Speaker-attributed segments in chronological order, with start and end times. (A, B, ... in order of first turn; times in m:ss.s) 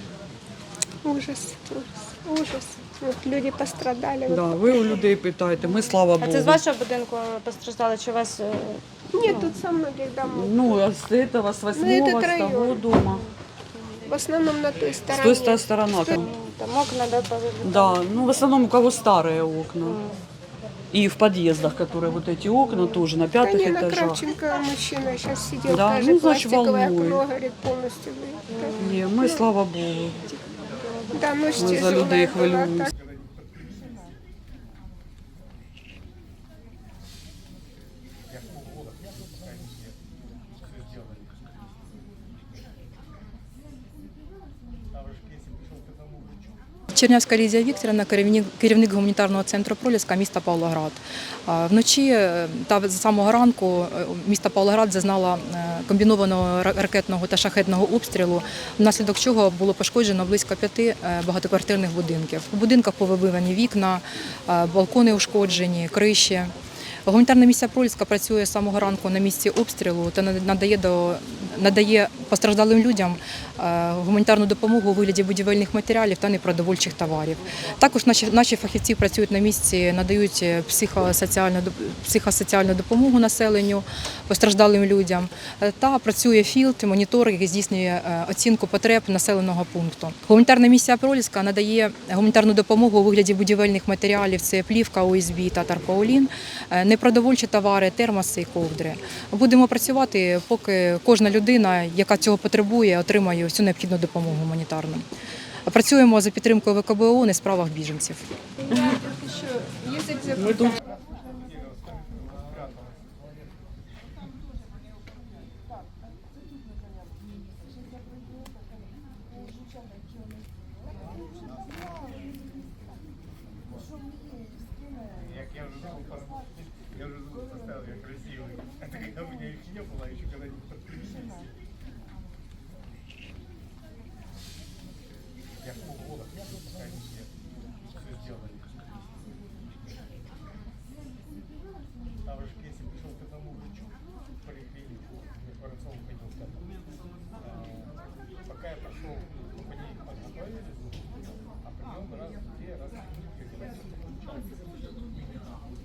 0:01.0-0:05.0 A
0:04.2-0:06.6 B
0:06.2-0:09.5 C
0:09.1-0:10.8 A
0:10.2-0:13.2 B
0:11.7-0:12.8 A
0:13.7-0:14.1 C
0:14.1-0:16.2 A
0:15.1-0:16.3 B
0:16.2-0:18.0 C
0:17.6-0:20.0 B
0:19.8-0:20.2 C
0:20.9-0:24.2 B
0:23.4-0:29.4 A
0:25.6-0:27.2 B
0:28.8-0:30.2 B
0:31.1-0:32.8 A
0:31.6-0:32.9 B
0:32.9-0:34.2 D
0:38.3-0:40.0 D
0:40.6-0:41.4 D
0:44.9-0:46.7 D
0:46.9-1:06.5 E
1:07.0-1:45.0 E
1:45.7-1:48.3 E
1:50.3-1:50.8 B
1:51.3-1:53.0 D
2:05.2-2:11.5 D
2:15.6-2:17.3 D
2:18.0-2:18.6 D
2:22.2-2:26.7 D
2:27.4-2:27.9 D
2:28.5-2:34.5 D